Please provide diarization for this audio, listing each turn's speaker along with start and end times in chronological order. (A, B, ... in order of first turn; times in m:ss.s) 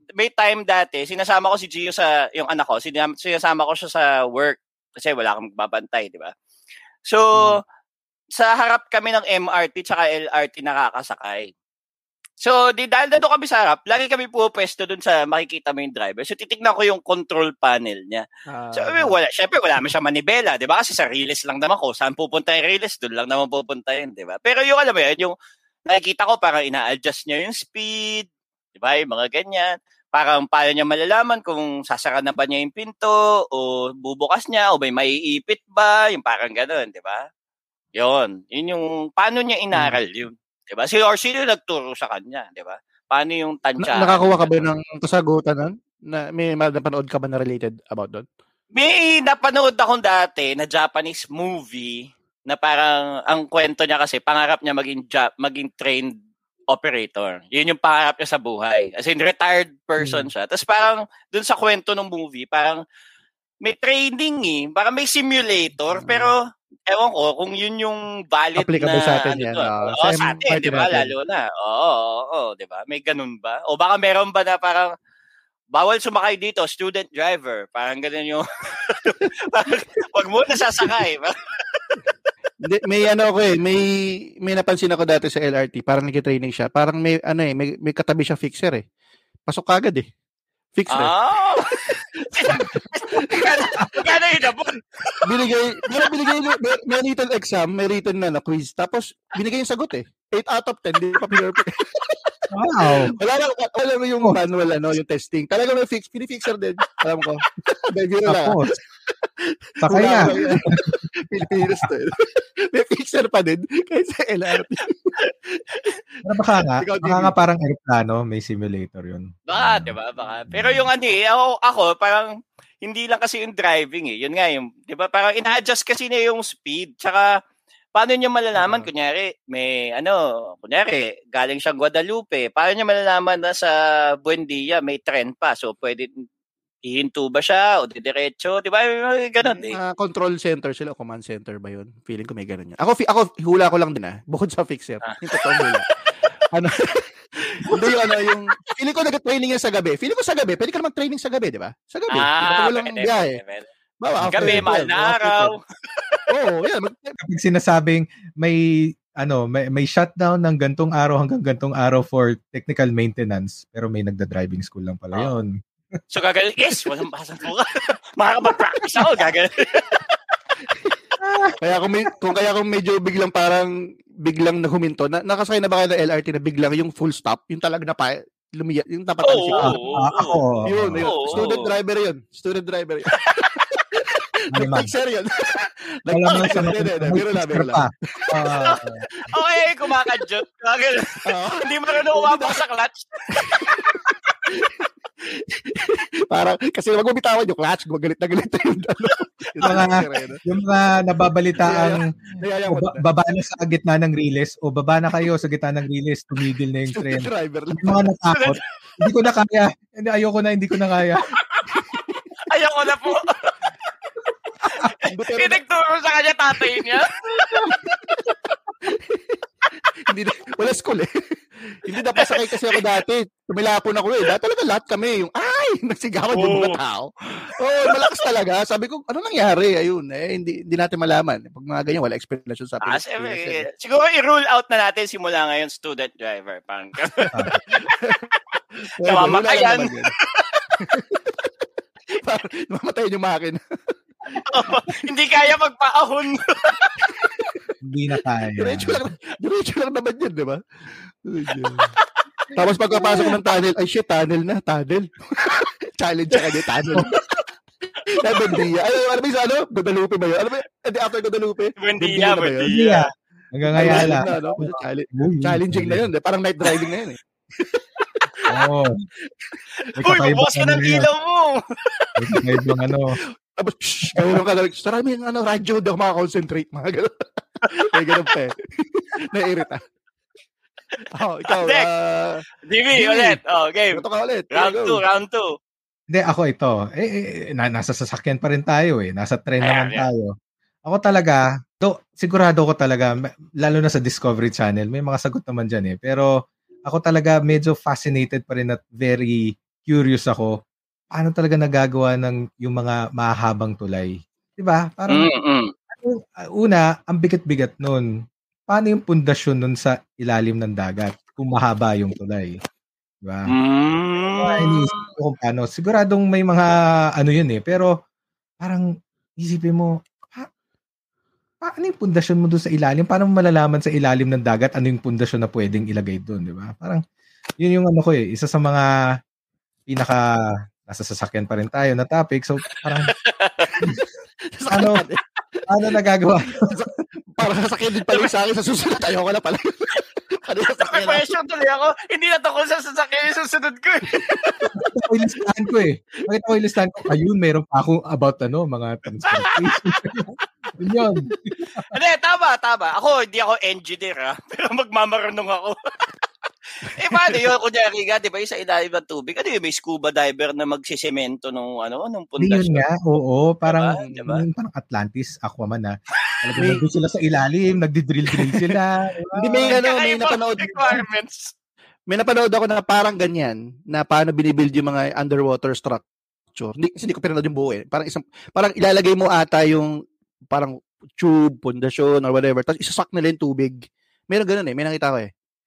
0:00.2-0:06.3 A
0:07.1-0:07.6 A
0:08.3-0:11.5 A
0:12.4-0:25.3 A
0:18.5-0:19.2 B
0:25.9-0:37.2 A
0:38.0-0:44.7 A
0:43.8-0:48.2 B
0:48.8-0:56.2 A
0:56.7-1:02.8 A
1:00.0-1:00.3 B
1:03.6-1:06.4 A
1:05.9-1:06.3 B
1:06.9-1:14.9 A
1:08.6-1:11.1 B
1:15.7-1:22.3 A
1:22.6-1:28.8 B
1:29.5-1:30.1 B
1:30.8-1:31.1 B
1:30.9-1:35.3 A
1:32.4-1:34.1 B
1:35.2-1:42.3 B
1:42.5-1:43.2 C
1:43.1-1:48.6 B
1:48.3-1:48.8 C
1:49.2-1:55.6 B
1:49.8-1:51.0 C
1:56.2-1:59.9 C
1:56.8-1:57.3 B
1:59.5-2:02.3 A
2:00.5-2:00.8 C
2:02.8-2:07.2 A
2:08.0-2:16.1 A
2:08.6-2:08.9 C
2:16.9-2:19.8 A
2:19.4-2:25.9 B
2:25.1-2:25.7 A
2:26.5-2:33.4 B
2:32.1-2:33.7 A
2:34.0-2:35.5 B
2:34.2-2:34.7 C
2:34.3-2:36.2 A
2:36.3-2:37.2 B
2:37.2-2:38.6 C
2:39.2-2:45.5 C
2:46.1-2:50.0 A
2:51.2-2:51.6 C
2:51.6-2:53.7 B
2:54.2-2:59.9 B
2:59.3-3:00.4 A
2:59.6-3:01.4 C
3:00.7-3:08.3 B
3:01.0-3:01.7 A
3:04.5-3:04.9 C
3:06.1-3:09.0 C
3:09.2-3:09.5 B
3:09.3-3:14.1 A
3:11.3-3:12.6 B
3:13.3-3:20.4 B
3:19.6-3:19.9 C
3:20.4-3:31.3 C
3:21.6-3:23.0 B
3:26.9-3:28.0 B
3:28.3-3:28.6 A
3:31.5-3:32.0 A
3:31.7-3:32.2 B
3:32.5-3:33.7 A
3:34.7-3:37.5 A
3:35.0-3:35.6 B
3:37.5-3:39.4 B
3:40.1-3:41.1 B
3:41.7-3:53.6 B
3:42.2-3:42.8 A
3:46.3-3:46.8 A
3:52.9-3:57.3 A
3:57.2-3:58.3 B
3:57.3-3:57.6 C
3:58.6-4:00.6 A
3:59.0-4:00.1 B
4:00.8-4:01.5 B
4:02.2-4:03.6 B
4:04.4-4:07.1 A
4:07.8-4:09.0 C
4:08.6-4:10.6 B
4:11.2-4:11.9 B
4:12.6-4:17.2 B
4:12.9-4:13.3 C
4:18.1-4:22.7 B
4:21.8-4:23.0 A
4:22.7-4:26.0 C
4:23.7-4:28.5 B
4:28.5-4:28.9 C
4:30.0-4:31.1 C
4:30.0-4:32.1 A
4:32.2-4:33.1 C
4:33.6-4:37.1 B
4:37.7-4:39.8 B
4:41.2-4:42.4 B
4:41.6-4:41.9 A
4:42.7-4:44.0 A
4:43.0-4:43.4 B
4:43.9-4:45.0 B
4:44.5-4:45.5 A
4:46.1-4:50.3 C
4:49.6-4:50.1 A
4:50.9-4:56.3 C
4:56.9-5:00.5 C
5:01.1-5:05.3 C
5:05.1-5:05.7 A
5:06.0-5:08.0 C
5:08.7-5:12.6 C
5:13.2-5:13.5 C
5:13.5-5:15.1 A
5:14.4-5:17.9 C
5:19.4-5:20.5 C
5:21.6-5:27.0 C
5:27.6-5:28.9 C
5:29.9-5:30.2 C
5:30.9-5:33.1 C
5:32.8-5:33.8 A
5:34.5-5:35.2 B
5:34.7-5:35.0 C
5:35.7-5:36.7 C
5:36.6-5:41.2 B
5:40.8-5:44.7 A
5:44.3-5:45.0 B
5:44.8-5:50.3 C
5:49.3-5:50.0 A
5:50.8-5:51.9 C
5:51.9-5:55.8 A
5:56.8-6:02.8 A
5:57.0-5:57.5 B
6:02.4-6:09.8 C
6:03.7-6:04.4 A
6:09.4-6:11.0 B
6:09.8-6:11.5 A
6:12.1-6:19.9 B
6:20.5-6:23.8 B
6:24.3-6:25.3 B